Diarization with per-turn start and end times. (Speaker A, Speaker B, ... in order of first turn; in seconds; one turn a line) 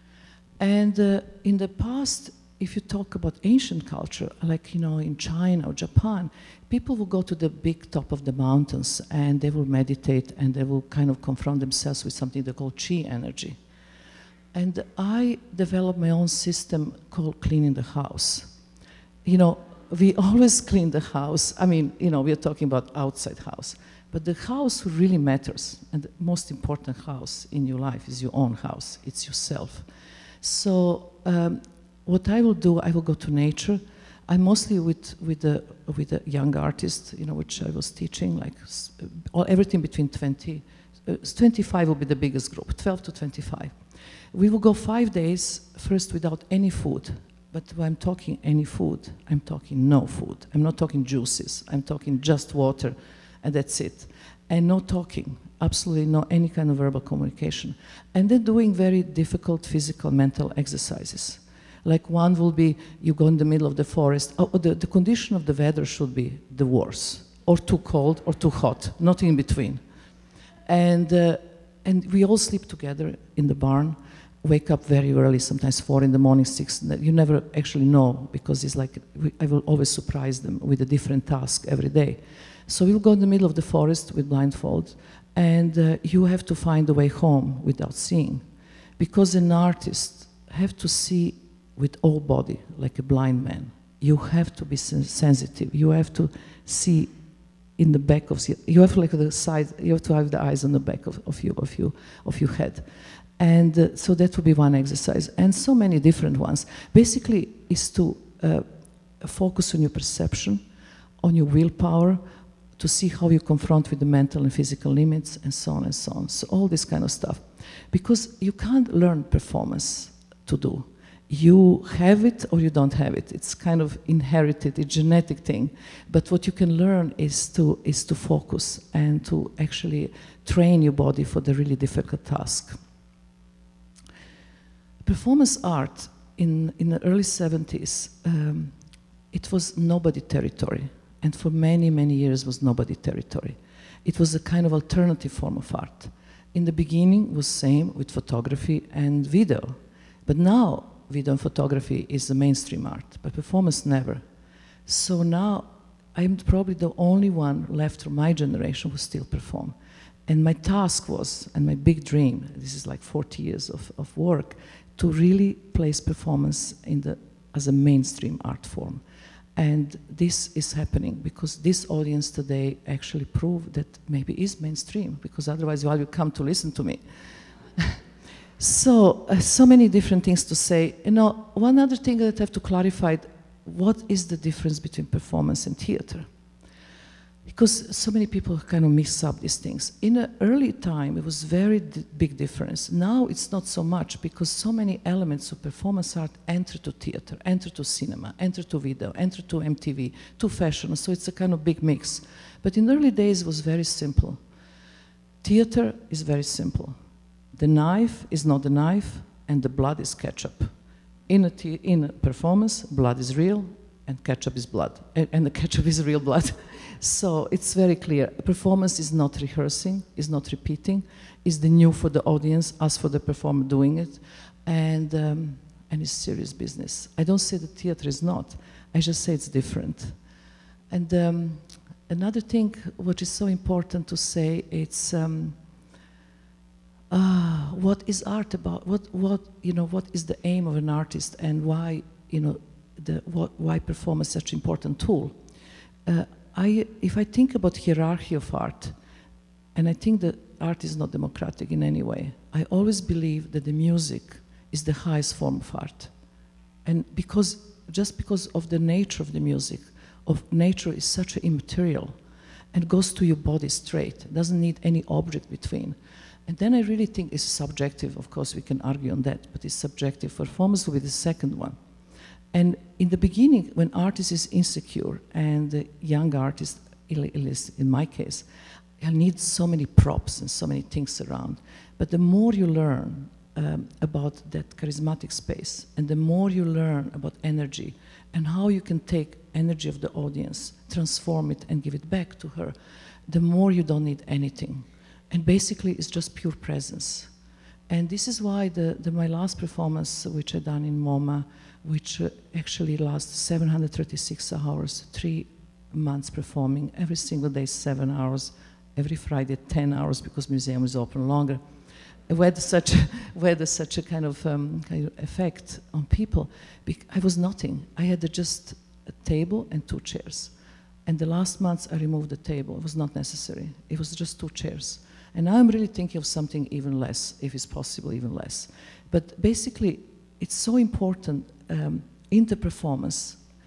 Speaker A: 0.6-13.6
Speaker A: 14.5-18.5
Speaker A: 19.2-29.9
Speaker A: 30.4-43.8
Speaker A: 44.3-69.8
Speaker A: 70.7-88.4
Speaker A: 89.0-97.1
Speaker A: 97.8-102.8
Speaker A: 103.4-108.7
Speaker A: 109.2-110.6
Speaker A: 111.2-112.2
Speaker A: 112.8-132.8
Speaker A: 135.0-138.8
Speaker A: 139.3-154.2
Speaker A: 154.8-159.7
Speaker A: 160.3-169.0
Speaker A: 169.5-177.2
Speaker A: 178.6-186.3
Speaker A: 187.4-204.4
Speaker A: 205.4-206.9
Speaker A: 207.5-210.7
Speaker A: 211.3-230.2
Speaker A: 230.9-235.6
Speaker A: 237.1-245.3
Speaker A: 246.0-248.9
Speaker A: 249.7-256.1
Speaker A: 256.8-262.2
Speaker A: 262.7-271.8
Speaker A: 272.5-278.4
Speaker A: 279.0-292.7
Speaker A: 293.3-297.3
Speaker A: 297.9-311.7
Speaker A: 312.3-320.5
Speaker A: 321.0-333.4